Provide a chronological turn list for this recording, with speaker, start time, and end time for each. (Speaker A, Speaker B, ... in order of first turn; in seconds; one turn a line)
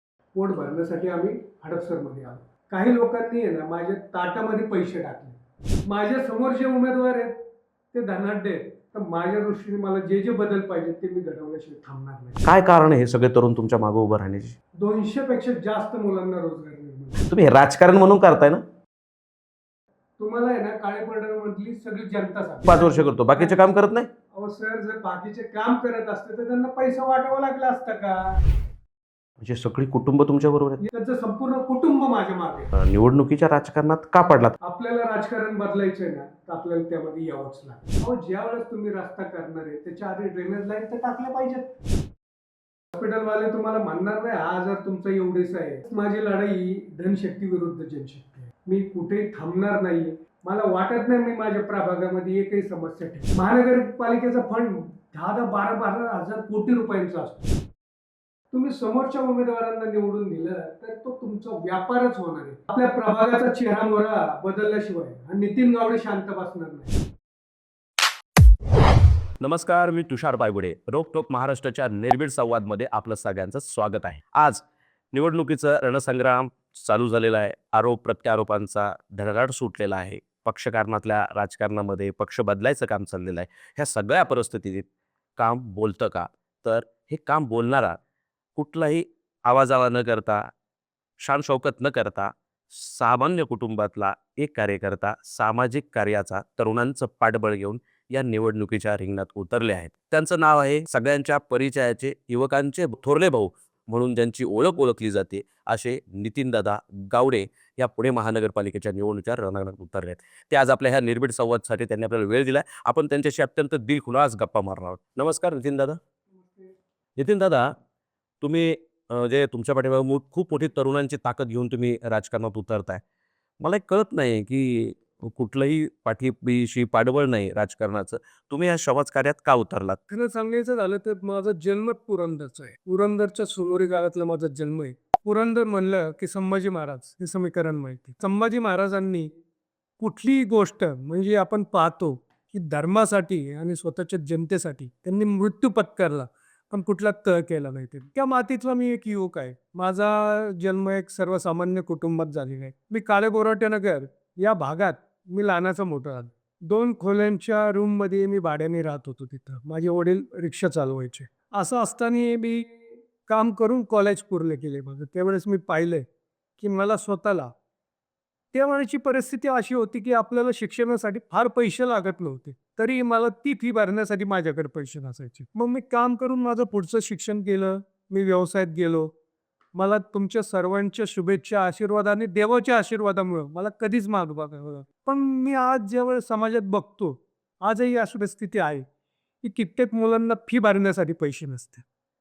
Speaker A: 0.3-7.3
Speaker A: 7.9-12.4
Speaker B: 12.4-14.6
Speaker A: 14.8-17.2
Speaker B: 17.3-18.6
Speaker A: 20.2-23.7
Speaker B: 22.7-24.1
Speaker A: 24.3-28.4
Speaker B: 29.4-30.8
Speaker A: 30.8-32.7
Speaker B: 32.7-34.5
Speaker A: 34.6-41.7
Speaker A: 42.9-57.5
Speaker A: 58.5-67.0
Speaker B: 69.4-84.9
Speaker B: 85.4-88.0
Speaker B: 88.6-90.5
Speaker B: 91.2-116.0
Speaker B: 117.2-117.8
Speaker B: 118.4-123.0
Speaker B: 123.6-130.0
Speaker A: 130.1-139.3
Speaker A: 140.0-166.1
Speaker A: 166.6-167.5
Speaker A: 168.5-179.1
Speaker A: 179.8-188.8
Speaker A: 189.4-191.8